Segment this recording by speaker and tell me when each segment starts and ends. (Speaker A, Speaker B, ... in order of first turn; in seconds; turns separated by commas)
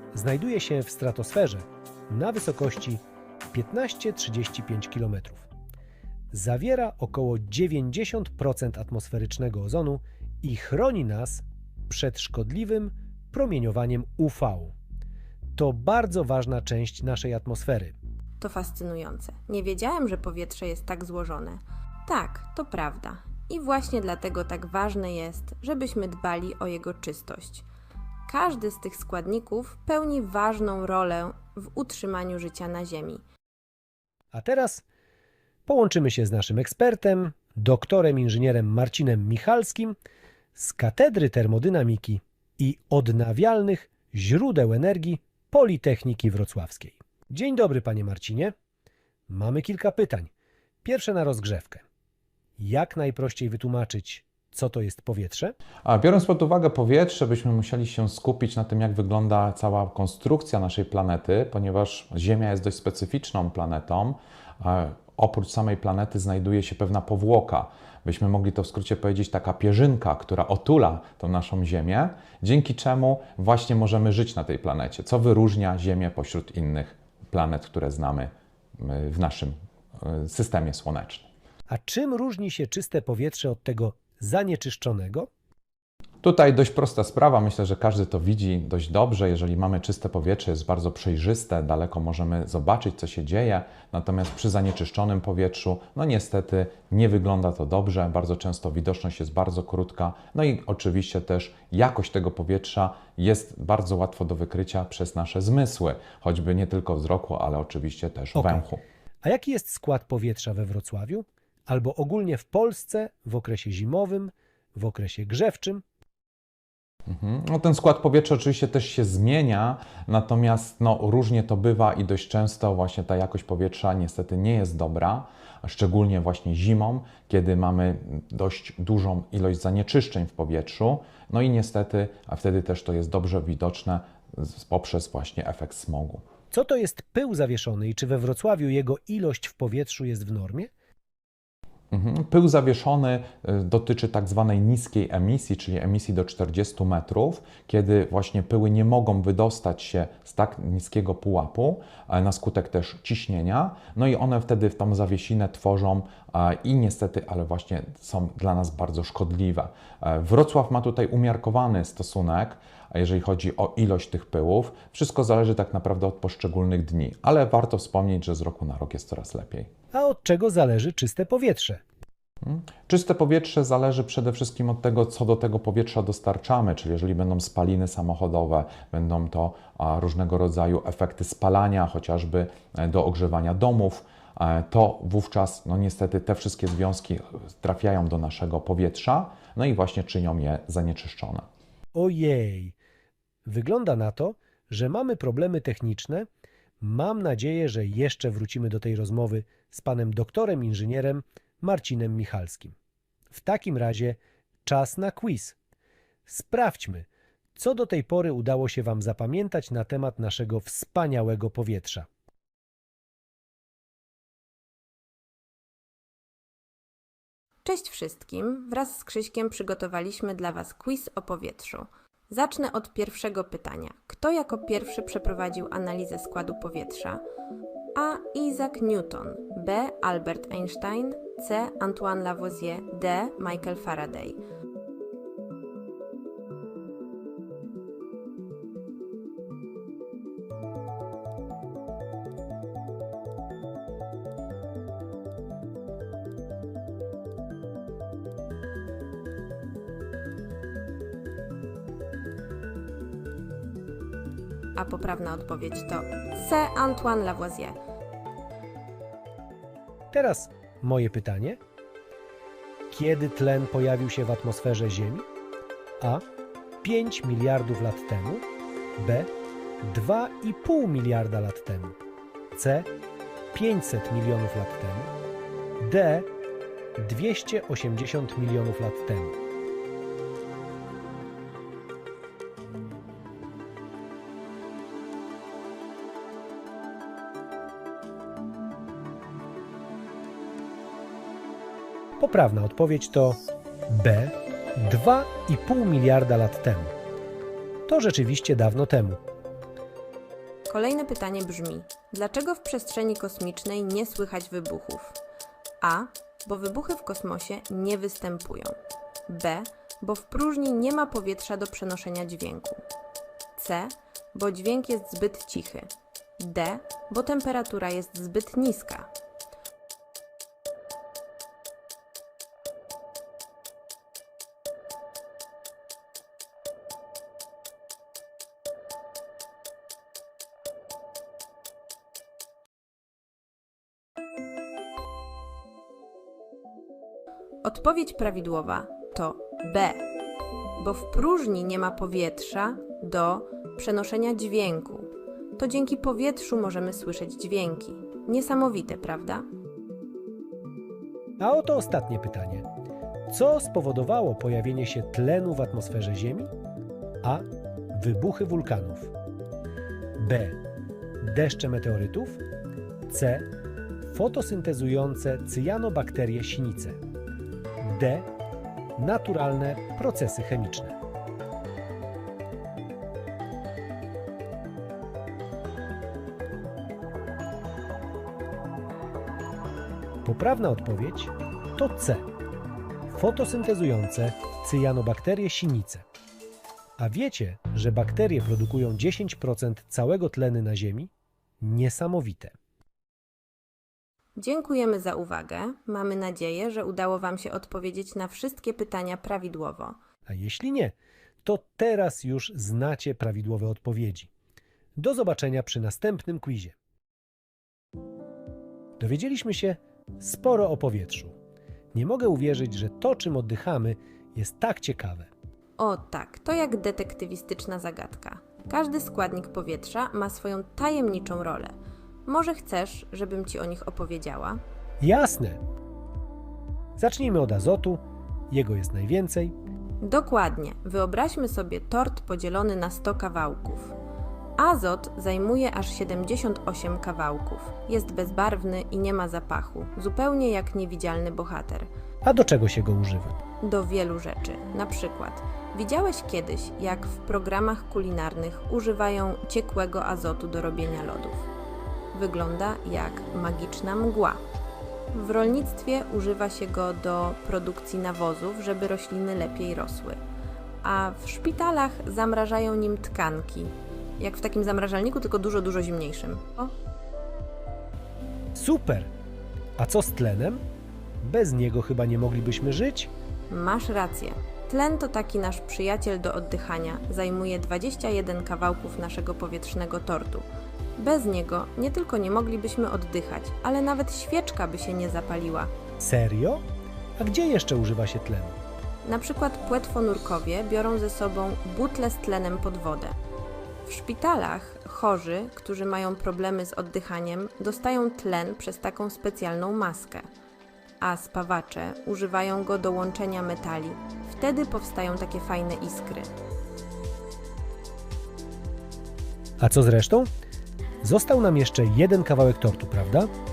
Speaker A: 0.1-5.5, Speaker A: 6.3-14.7, Speaker A: 15.6-17.9, Speaker B: 18.4-27.6, Speaker B: 28.3-33.2, Speaker A: 34.3-34.8, Speaker A: 35.7-40.0, Speaker A: 40.5-48.5, Speaker A: 49.3-50.3, Speaker A: 50.8-51.8, Speaker A: 52.6-55.5, Speaker C: 55.8-81.3, Speaker A: 81.7-85.3, Speaker C: 86.2-108.8, Speaker A: 108.3-108.7, Speaker A: 109.2-115.8, Speaker C: 117.1-136.2, Speaker A: 136.5-140.7, Speaker C: 141.9-169.7, Speaker A: 169.9-171.8, Speaker C: 172.4-191.4, Speaker A: 191.9-192.8, Speaker A: 193.4-196.3, Speaker A: 196.8-202.7, Speaker A: 203.3-205.6, Speaker A: 206.3-212.1, Speaker B: 217.6-227.2, Speaker B: 227.9-234.4, Speaker B: 254.7-257.8, Speaker A: 260.1-261.6, Speaker A: 262.9-265.2, Speaker A: 266.8-268.4, Speaker A: 269.0-269.3, Speaker A: 269.8-272.0, Speaker A: 272.5-272.9, Speaker A: 273.5-275.1, Speaker A: 275.8-276.3, Speaker A: 277.0-279.4, Speaker A: 292.2-296.9, Speaker A: 297.9-299.2, Speaker B: 300.7-305.2, Speaker B: 305.8-308.8, Speaker B: 309.3-312.8, Speaker B: 313.6-319.1, Speaker B: 337.6-340.0, Speaker B: 340.8-349.4, Speaker A: 351.4-352.7, Speaker A: 353.3-356.5, Speaker A: 357.2-359.1, Speaker A: 360.2-360.6, Speaker A: 361.2-362.4, Speaker A: 363.1-363.5, Speaker A: 364.1-367.0, Speaker A: 367.8-368.3, Speaker A: 369.0-371.0, Speaker A: 380.2-382.3, Speaker A: 383.1-386.0, Speaker A: 387.0-392.5, Speaker B: 394.4-400.0, Speaker A: 400.3-404.3, Speaker A: 405.0-406.7, Speaker A: 409.0-411.3, Speaker A: 411.9-415.3, Speaker B: 415.8-421.7, Speaker B: 422.2-424.6, Speaker A: 425.0-425.6, Speaker A: 427.0-429.5, Speaker B: 430.0-433.9, Speaker B: 434.6-441.9, Speaker A: 442.2-443.4, Speaker B: 443.6-451.5, Speaker B: 452.1-454.4, Speaker B: 455.1-460.2, Speaker B: 460.8-466.7, Speaker A: 468.5-469.1, Speaker A: 469.8-470.6, Speaker A: 471.2-473.1, Speaker B: 473.5-480.4, Speaker B: 481.0-485.7, Speaker A: 486.0-486.6, Speaker A: 487.2-488.5, Speaker B: 489.0-493.1, Speaker B: 493.8-500.2, Speaker B: 501.0-506.3, Speaker A: 509.6-510.3, Speaker A: 511.0-513.3